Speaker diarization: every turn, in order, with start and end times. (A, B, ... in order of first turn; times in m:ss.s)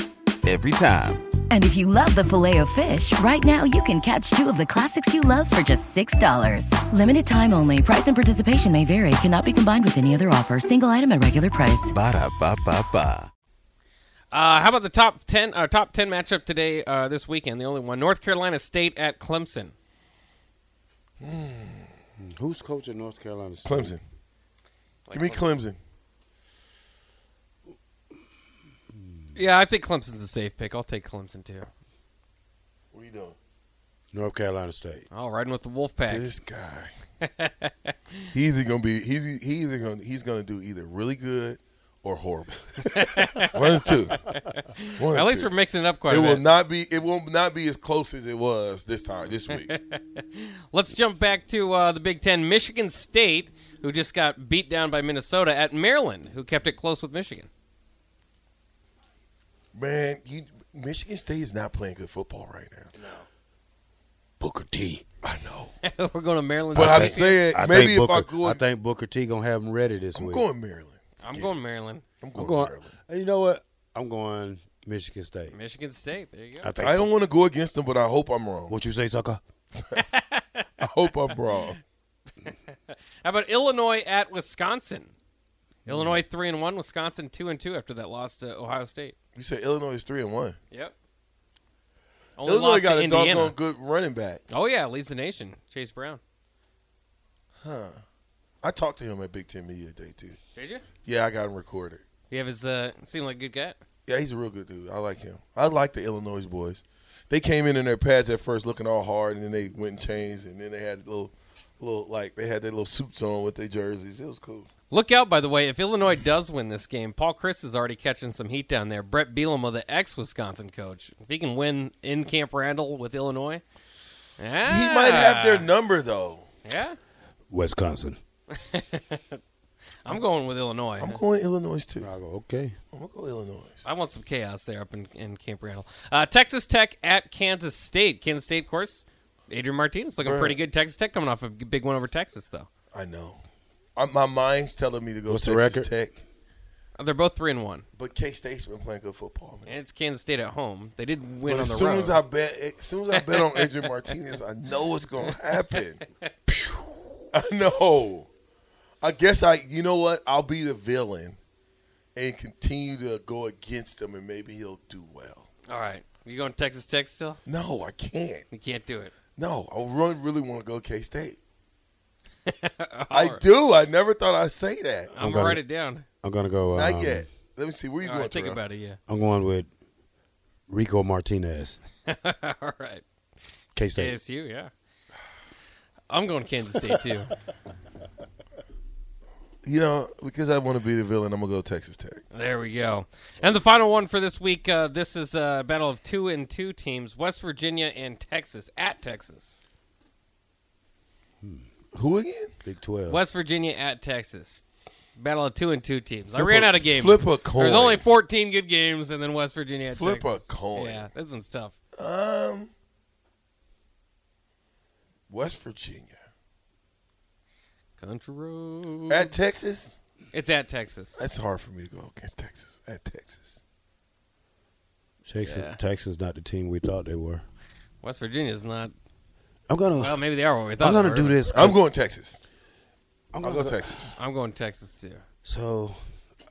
0:00.4-0:01.3 A
0:01.4-0:12.0 B
0:11.9-0:13.3 A
0:14.3-0:19.7 C
0:21.2-0:21.9 D
0:22.2-0:24.0 E
0:23.6-0:24.0 D
0:25.1-0:25.6 C
0:25.1-0:25.8 D
0:29.0-0:29.4 E
0:29.4-0:31.7 C
0:32.9-0:33.4 D
0:34.1-0:35.0 E
0:35.1-0:36.3 C
0:36.1-0:36.9 D
0:37.2-0:37.7 C
0:38.3-0:44.3 D
0:42.9-0:46.5 C
0:45.0-0:45.5 D
0:46.1-0:49.7 D
0:49.5-0:57.5 C
0:59.7-1:02.9 D
1:03.0-1:03.3 C
1:04.4-1:05.0 E
1:05.2-1:05.7 D
1:05.8-1:07.4 C
1:06.7-1:10.5 E
1:06.7-1:08.6 D
1:10.2-1:11.6 D
1:11.2-1:12.0 C
1:12.2-1:12.9 D
1:12.3-1:15.6 E
1:15.5-1:16.7 C
1:16.6-1:17.1 E
1:16.8-1:18.7 D
1:18.7-1:19.4 E
1:20.0-1:20.7 C
1:20.8-1:21.8 D
1:22.4-1:25.1 C
1:25.9-1:26.2 E
1:25.9-1:29.2 C
1:29.4-1:30.6 D
1:30.7-1:31.0 C
1:32.4-1:33.6 C
1:32.4-1:34.4 D
1:34.5-1:36.2 C
1:37.6-1:38.0 D
1:38.6-1:40.4 D
1:40.6-1:40.9 C
1:41.0-1:42.0 D
1:42.3-1:43.8 C
1:44.1-1:54.7 D
1:54.9-2:03.6 C
2:04.4-2:05.7 C
2:04.6-2:06.5 D
2:06.6-2:07.0 C
2:07.5-2:08.2 E
2:08.6-2:09.4 C
2:10.0-2:11.2 C
2:11.0-2:12.1 D
2:12.0-2:12.8 E
2:12.9-2:13.8 D
2:13.8-2:22.7 C
2:20.2-2:20.6 D
2:22.9-2:23.4 D
2:24.0-2:26.2 D
2:25.3-2:25.9 E
2:27.0-2:27.9 C
2:28.0-2:29.7 D
2:29.7-2:32.2 C
2:31.4-2:36.0 D
2:33.3-2:33.7 C
2:37.3-2:38.3 D
2:39.0-2:41.4 D
2:42.2-2:45.5 D
2:45.7-2:47.4 C
2:47.4-2:48.5 D
2:48.5-2:49.1 C
2:49.4-2:51.4 D
2:52.5-2:53.4 C
2:53.1-2:55.2 D
2:55.1-2:56.1 C
2:55.2-2:55.6 E
2:56.2-2:57.3 E
2:56.7-2:58.6 D
2:58.0-2:59.0 C
2:59.1-2:59.7 E
3:00.7-3:01.8 E
3:02.1-3:03.0 C
3:03.8-3:04.2 E
3:04.0-3:04.7 C
3:06.1-3:07.3 C
3:09.6-3:12.2 D
3:12.3-3:19.6 C
3:21.9-3:22.5 D
3:22.6-3:23.2 E
3:23.1-3:24.6 C
3:25.2-3:31.8 C
3:26.3-3:28.0 D
3:29.9-3:31.1 D
3:32.0-3:32.7 D
3:35.3-3:36.2 D
3:38.0-3:39.4 C
3:39.1-3:40.0 D
3:40.3-3:41.2 C
3:41.2-3:43.6 D
3:45.2-3:47.4 E
3:45.4-3:45.8 C
3:48.0-3:48.9 C
3:49.7-3:50.3 E
3:50.0-3:51.4 C
3:50.8-3:51.8 E
3:51.5-3:52.4 D
3:53.3-3:54.1 E
3:53.4-3:54.1 D
3:54.2-3:55.2 C
3:55.4-3:56.0 E